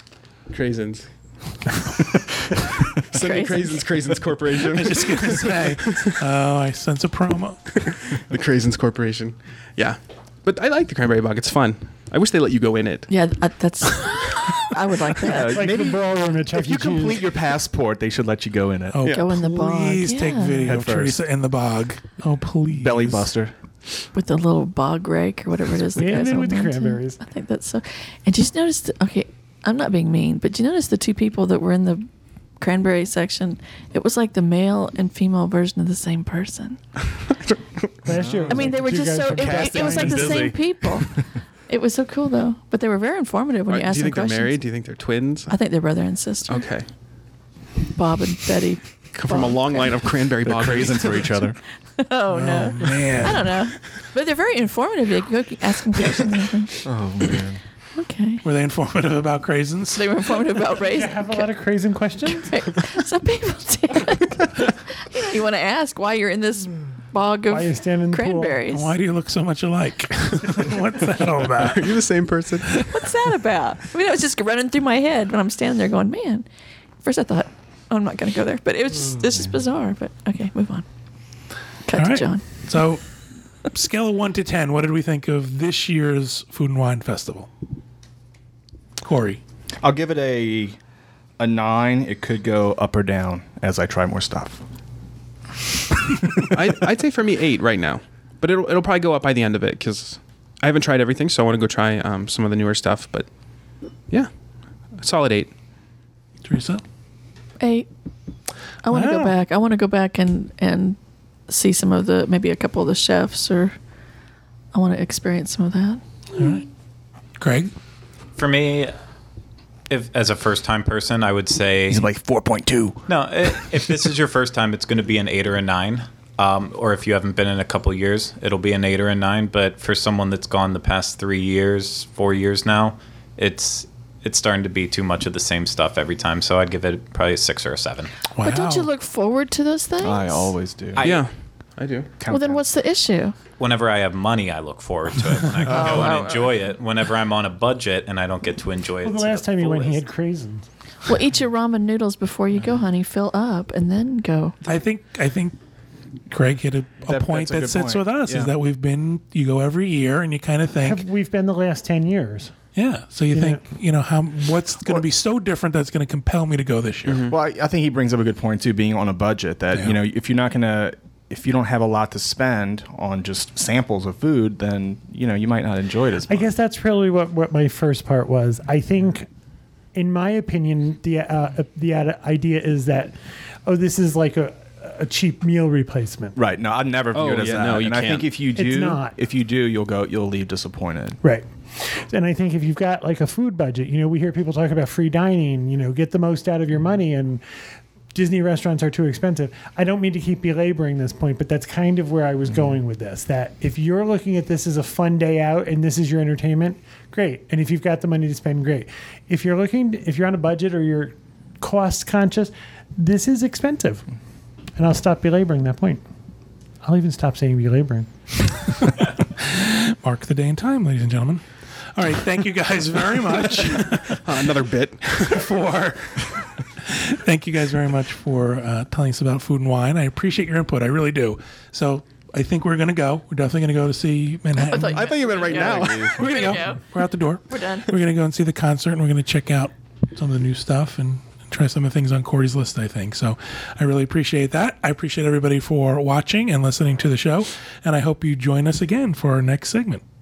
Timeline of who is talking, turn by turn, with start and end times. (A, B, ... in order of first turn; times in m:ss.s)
0:00.5-0:01.1 A
0:02.6-0:06.1 A
0:03.1-0:03.8 B
0:04.7-0:07.8 C
0:07.8-0:13.1 A
0:13.1-0:15.6 B
0:15.2-0:19.0 D
0:15.4-0:17.2 E
0:18.9-0:23.3 C
0:19.0-0:20.7 B
0:20.6-0:21.2 D
0:22.8-0:23.5 D
0:24.1-0:32.0 B
0:25.9-0:27.2 E
0:32.6-0:36.8 B
0:37.5-0:37.8 A
0:38.0-0:40.6 E
0:38.1-0:38.8 D
0:38.5-0:44.6 B
0:39.4-0:41.1 D
0:43.7-0:45.6 A
0:45.5-0:46.7 B
0:46.5-0:46.9 A
0:47.9-0:50.0 B
0:49.1-0:51.4 A
0:50.4-0:51.6 D
0:52.0-0:56.8 B
0:52.3-0:53.7 C
0:56.8-0:57.6 D
0:58.0-0:58.4 B
0:58.4-1:00.1 C
0:59.9-1:01.5 B
1:00.8-1:02.5 E
1:02.2-1:08.9 B
1:07.5-1:08.6 E
1:08.7-1:12.0 C
1:11.5-1:12.9 A
1:12.9-1:16.4 B
1:17.0-1:20.9 B
1:21.9-1:22.4 B
1:21.9-1:23.0 C
1:23.7-1:27.5 C
1:29.0-1:29.4 C
1:29.8-1:30.8 D
1:31.4-1:34.6 D
1:36.4-1:43.3 A
1:45.0-1:45.5 A
1:46.4-1:46.8 C
1:47.6-1:47.9 B
1:48.8-1:53.7 B
1:48.9-1:49.4 C
1:54.7-1:56.0 B
1:56.3-1:56.6 C
1:57.4-1:57.7 C
1:58.4-1:58.9 F
1:59.9-2:02.1 F
2:01.9-2:03.0 D
2:03.1-2:18.1 F
2:18.4-2:18.9 C
2:18.4-2:20.5 B
2:20.0-2:21.2 D
2:21.0-2:21.2 F
2:21.0-2:22.1 A
2:22.2-2:22.7 D
2:22.3-2:23.4 B
2:23.6-2:30.0 F
2:25.7-2:26.5 B
2:29.0-2:30.6 E
2:31.0-2:34.6 B
2:34.6-2:35.6 C
2:36.3-2:41.0 C
2:37.0-2:38.5 D
2:40.8-2:42.5 E
2:42.7-2:47.3 C
2:43.3-2:43.6 E
2:47.1-2:47.3 A
2:47.2-2:56.5 D
2:56.3-2:59.3 E
2:59.9-3:06.4 E
3:06.4-3:11.2 D
3:07.1-3:08.3 A
3:08.6-3:09.1 E
3:11.2-3:17.4 E
3:18.1-3:34.0 E
3:34.8-3:36.0 E
3:36.8-3:38.1 E
3:39.4-3:41.4 C
3:41.9-3:44.3 C
3:44.1-3:45.4 A
3:45.1-3:46.2 C
3:46.8-3:55.0 C
3:54.6-3:56.8 B
3:54.8-3:56.2 A
3:55.1-3:56.1 D
3:56.1-4:10.0 C
3:57.5-3:57.9 B